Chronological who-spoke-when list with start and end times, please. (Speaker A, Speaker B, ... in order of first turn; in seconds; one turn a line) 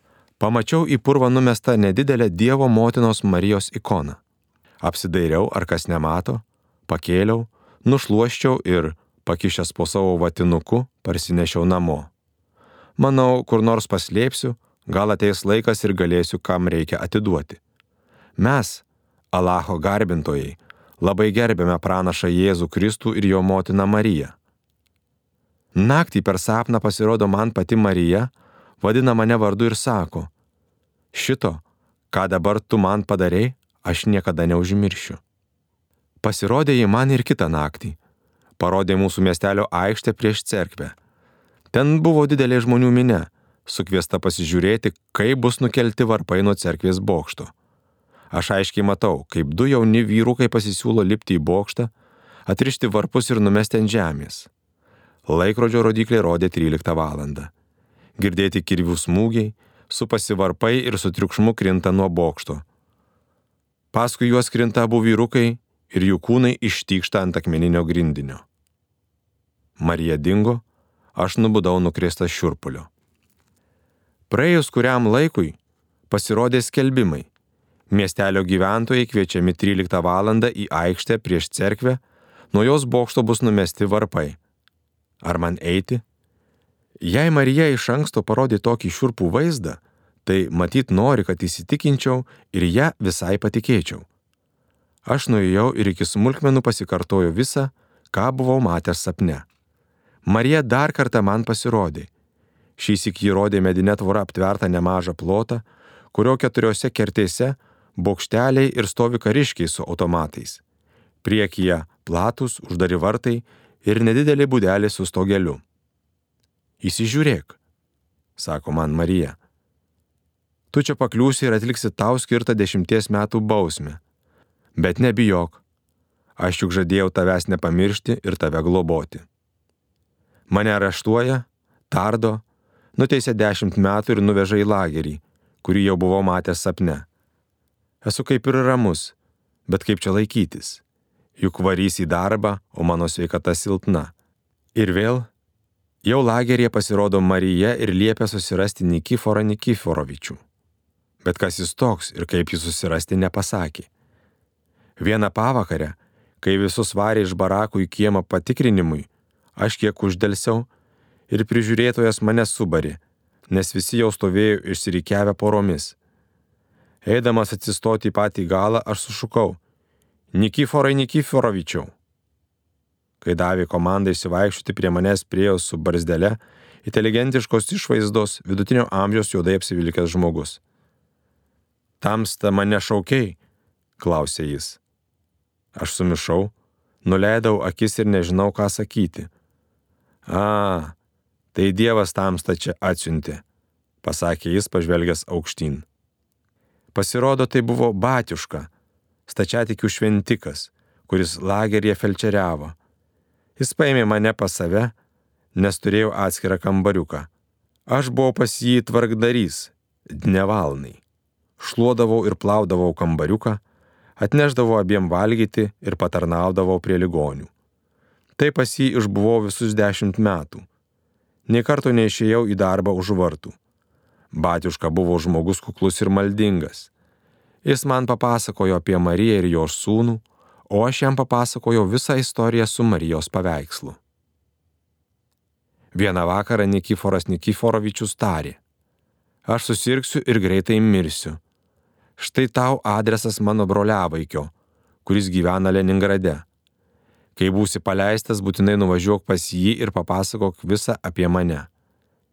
Speaker A: 0.4-4.2
Speaker A: 4.8-12.1
Speaker A: 13.0-17.6
Speaker A: 18.4-24.3
Speaker A: 25.7-30.3
Speaker A: 31.1-35.2
Speaker A: 36.2-38.0
Speaker A: 38.6-40.9
Speaker A: 41.7-47.5
Speaker A: 48.3-51.9
Speaker A: 52.5-54.5
Speaker A: 55.3-57.5
Speaker A: 58.2-62.6
Speaker A: 63.9-68.4
Speaker A: 69.8-70.6
Speaker A: 71.1-72.9
Speaker A: 74.3-75.6
Speaker A: 76.1-77.3
Speaker A: 77.9-82.0
Speaker A: 82.5-84.4
Speaker A: 85.2-86.0
Speaker A: 87.0-94.0
Speaker A: 95.0-99.4
Speaker A: 100.2-102.1
Speaker A: 102.8-110.6
Speaker A: 111.2-115.6
Speaker A: 116.8-117.6
Speaker A: 118.4-119.3
Speaker A: 120.7-124.0
Speaker A: 124.8-125.6
Speaker A: 126.4-129.2
Speaker A: 130.5-132.4
Speaker A: 132.9-137.1
Speaker A: 138.0-139.1
Speaker A: 139.7-140.8
Speaker A: 141.4-144.1
Speaker A: 144.7-145.3
Speaker A: 146.0-150.4
Speaker A: 151.2-153.9
Speaker A: 155.0-160.7
Speaker A: 161.3-165.9
Speaker A: 167.0-169.6
Speaker A: 170.3-171.9
Speaker A: 173.2-180.6
Speaker A: 182.0-183.4
Speaker A: 184.0-184.8
Speaker A: 185.7-186.5
Speaker A: 187.0-189.3
Speaker A: 190.2-190.9
Speaker A: 191.5-193.4
Speaker A: 194.0-195.8
Speaker A: 196.9-198.7
Speaker A: 199.3-202.8
Speaker A: 203.6-204.9
Speaker A: 205.5-207.3
Speaker A: 207.9-211.0
Speaker A: 211.6-213.6
Speaker A: 214.2-217.5
Speaker A: 218.4-220.7
Speaker A: 221.5-223.6
Speaker A: 224.3-226.9
Speaker A: 227.6-234.0
Speaker A: 235.9-238.6
Speaker A: 239.4-241.4
Speaker A: 242.2-244.5
Speaker A: 245.0-246.4
Speaker A: 247.3-251.7